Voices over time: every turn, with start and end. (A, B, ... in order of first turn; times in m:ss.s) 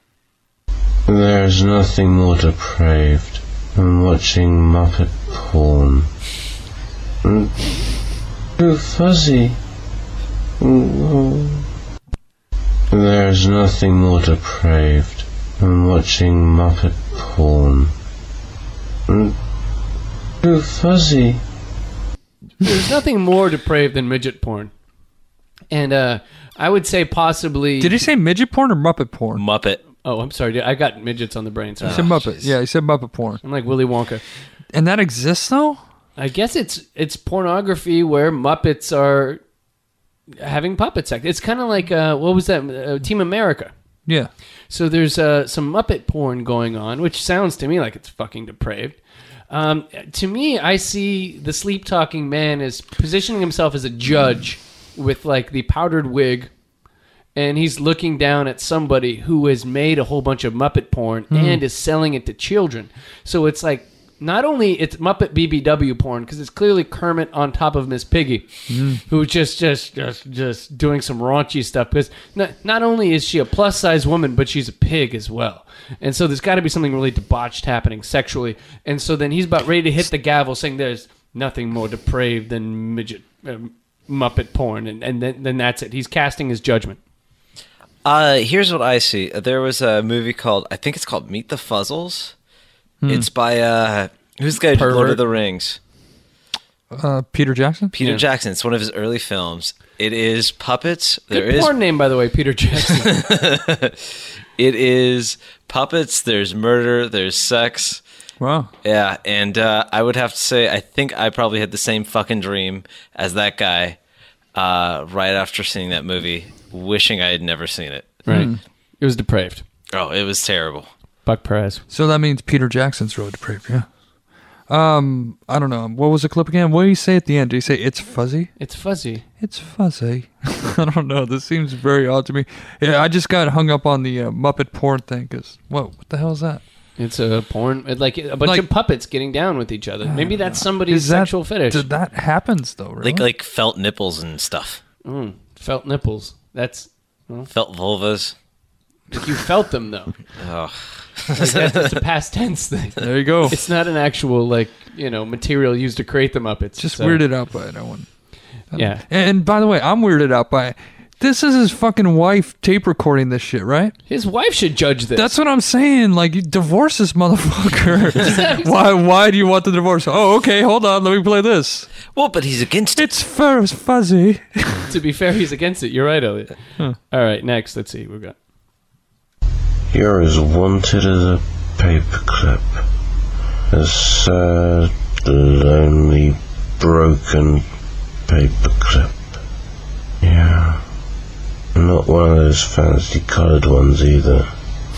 0:01.1-0:06.1 A
0:07.2-0:07.7 A
0:08.6-0:09.6 A
0:10.6-0:11.6 A
0:12.9-0:17.9 A
0:19.1-0:19.4 A
0:20.4-0:21.4 A
0:22.6-0:24.7 B
0:25.7-0:28.1 B
0:27.8-0:29.4 C
0:29.4-0:29.8 D
0:30.0-0:32.1 B
0:31.8-0:32.5 D
0:31.9-0:33.4 C
0:33.4-0:34.2 B
0:34.7-0:35.8 C
0:36.2-0:39.4 B
0:40.4-0:43.7 B
0:44.7-0:49.0 B
0:49.5-0:56.5 B
0:57.3-1:27.0 B
1:01.3-1:01.6 C
1:08.7-1:09.0 C
1:28.0-1:32.3 D
1:33.0-1:33.3 C
1:33.0-1:35.8 D
1:34.7-1:35.2 B
1:36.9-1:37.9 C
1:37.9-1:41.7 D
1:41.3-1:43.3 B
1:43.0-1:44.0 D
1:44.6-1:48.0 D
1:48.4-1:48.7 C
1:48.8-1:54.0 D
1:54.5-1:58.2 D
1:58.2-1:59.6 B
1:58.3-1:58.6 C
1:59.9-2:00.9 D
2:01.2-2:01.8 B
2:01.9-2:03.9 C
2:04.7-2:08.5 C
2:08.6-2:09.2 B
2:09.4-2:16.6 C
2:17.0-2:21.9 B
2:20.0-2:23.3 C
2:23.0-2:24.8 D
2:25.0-2:27.5 B
2:27.5-2:28.3 D
2:29.1-2:30.1 B
2:30.4-2:32.0 D
2:31.3-2:37.2 B
2:33.0-2:33.6 C
2:36.8-2:38.1 C
2:38.7-2:43.9 C
2:38.7-2:39.0 B
2:44.1-2:45.3 B
2:45.2-2:51.9 C
2:48.2-2:48.7 B
2:52.1-2:53.1 D
2:53.0-2:54.9 C
2:54.8-2:58.4 B
2:59.9-3:02.8 A
3:03.7-3:07.6 A
3:08.3-3:09.2 A
3:10.2-3:10.8 A
3:11.7-3:14.5 A